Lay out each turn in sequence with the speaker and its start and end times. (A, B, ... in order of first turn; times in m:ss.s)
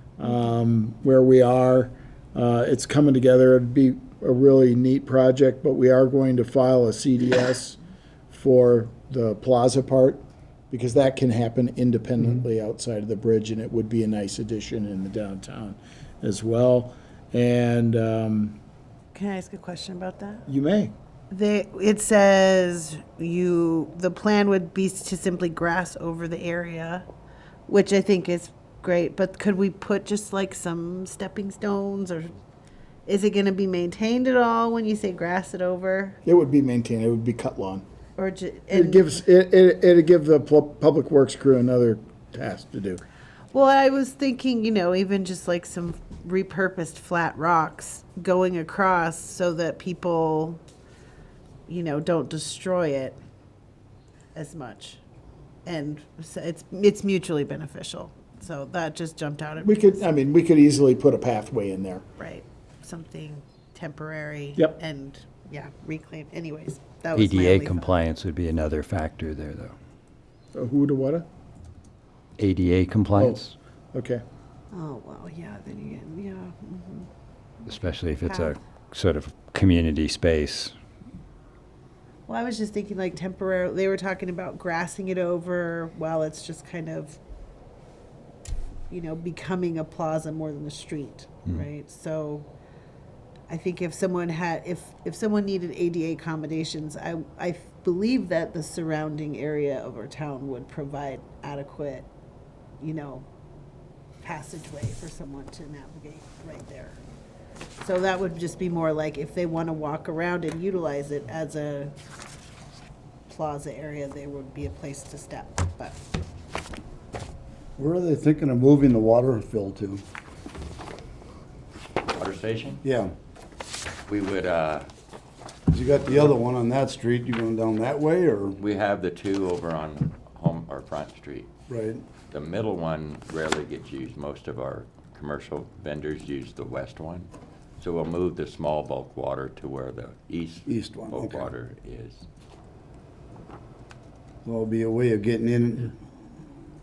0:00.2-0:07.8 A
0:08.3-0:18.6 A
0:19.1-0:20.4 B
0:20.5-0:20.9 A
0:21.3-0:27.1 B
0:27.7-0:32.3 B
0:33.1-0:36.2 B
0:36.2-0:37.8 A
0:38.2-0:39.1 B
0:38.7-0:43.0 A
0:43.5-0:50.6 B
0:51.7-0:53.2 B
0:54.4-0:55.0 B
0:55.7-1:00.1 B
0:59.6-1:02.0 A
1:02.2-1:07.9 B
1:07.2-1:09.7 C
1:10.5-1:11.2 A
1:12.4-1:13.5 C
1:13.2-1:13.4 A
1:13.9-1:14.2 A
1:14.7-1:17.1 B
1:17.7-1:18.6 B
1:17.7-1:20.7 C
1:22.3-1:27.2 B
1:28.9-1:32.5 B
1:33.5-1:42.1 B
1:42.8-1:43.3 B
1:44.2-1:47.0 B
1:47.8-1:52.0 B
1:53.3-1:56.0 B
1:57.8-2:00.0 D
2:02.1-2:02.8 E
2:02.8-2:03.1 D
2:04.1-2:04.9 E
2:05.7-2:08.6 D
2:08.6-2:11.5 E
2:11.7-2:12.0 D
2:12.3-2:22.2 E
2:20.7-2:21.5 D
2:24.4-2:26.0 D